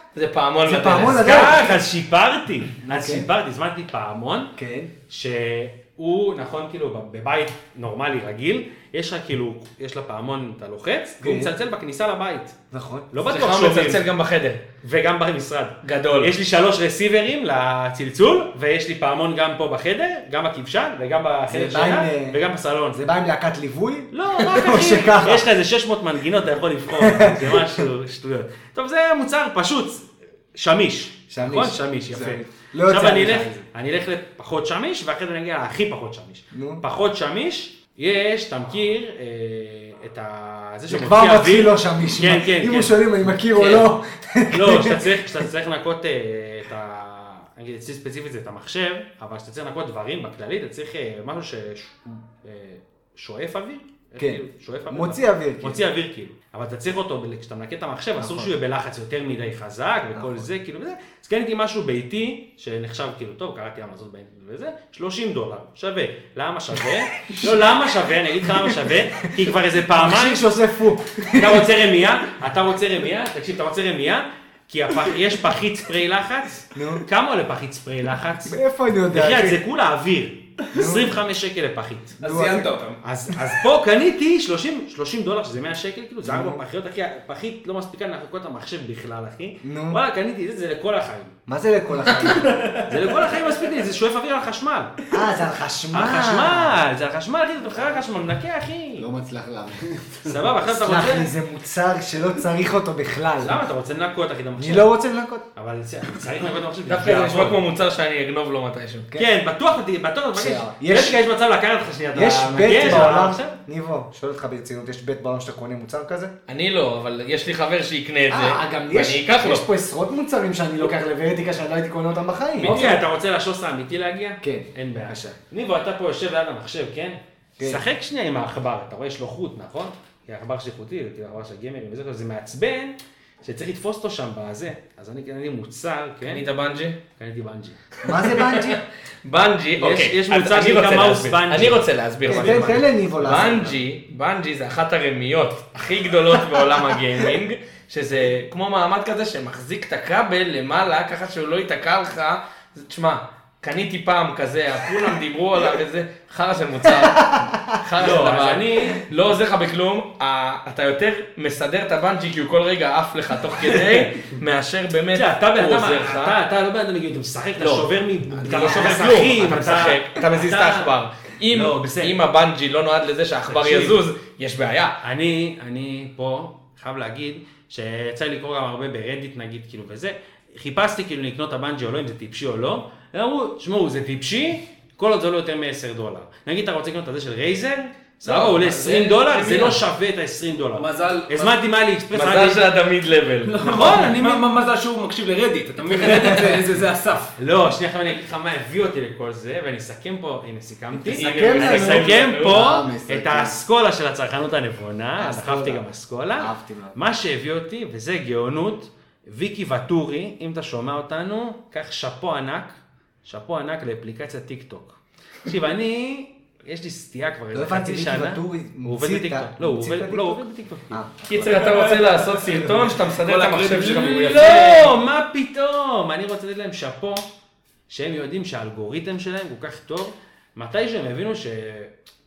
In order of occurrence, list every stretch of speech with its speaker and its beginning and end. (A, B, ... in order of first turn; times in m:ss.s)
0:00.1-0:01.6 A
0:00.6-0:01.8 B
0:01.0-0:04.5 C
0:02.9-0:03.2 B
0:04.6-0:04.9 B
0:05.1-0:12.5 C
0:11.2-0:11.5 B
0:12.7-0:13.1 B
0:13.1-0:14.1 C
0:13.2-0:14.6 A
0:14.8-0:23.0 C
0:15.8-0:16.3 A
0:21.5-0:22.4 B
0:22.9-0:25.5 B
0:24.1-0:43.0 C
0:27.0-0:27.8 B
0:31.3-0:33.6 B
0:36.5-0:36.8 B
0:40.9-0:45.2 B
0:44.5-1:10.5 C
0:54.2-0:55.8 B
0:58.2-0:58.5 B
1:00.1-1:00.5 B
1:07.3-1:07.6 B
1:08.5-1:08.9 B
1:09.4-1:11.7 B
1:11.3-1:18.6 C
1:16.7-1:17.0 B
1:18.4-1:19.6 B
1:19.1-1:22.2 C
1:20.7-1:21.2 B
1:22.2-1:22.7 B
1:22.2-1:23.0 D
1:23.0-1:31.3 C
1:26.2-1:26.6 B
1:29.6-1:30.0 B
1:31.5-1:32.7 B
1:32.8-1:34.9 C
1:35.1-1:36.8 B
1:35.9-1:39.1 C
1:39.0-1:40.5 E
1:40.2-1:41.3 C
1:40.7-1:43.6 B
1:43.4-1:44.9 C
1:44.6-1:45.4 B
1:45.5-1:47.6 C
1:46.9-1:49.1 A
1:49.2-1:53.6 C
1:50.3-1:51.2 B
1:52.1-1:56.3 B
1:56.5-1:59.6 A
1:58.3-2:03.0 B
2:02.6-2:16.4 C
2:04.4-2:05.4 B
2:07.6-2:07.8 B
2:16.2-2:17.0 A
2:17.2-2:17.8 C
2:18.0-2:18.8 B
2:18.1-2:46.4 A
2:19.8-2:23.0 C
2:22.2-2:23.8 B
2:36.9-2:37.8 B
2:38.0-2:39.0 C
2:43.7-2:44.4 C
2:45.1-2:50.9 C
2:47.6-2:55.0 A
2:51.5-2:52.2 C
2:53.5-2:54.0 C
2:55.0-3:12.6 C
3:08.2-3:09.8 D
3:10.7-3:11.6 D
3:12.1-3:13.9 A
3:13.4-3:17.3 D
3:13.6-3:14.4 C
3:17.4-3:41.6 C
3:21.1-3:22.2 B
3:21.1-3:22.5 A
3:22.2-3:23.6 E
3:25.2-3:27.0 B
3:37.5-3:41.6 B
3:41.3-3:44.9 A
3:41.4-3:44.9 D
3:43.8-3:47.2 C
3:47.9-3:51.9 C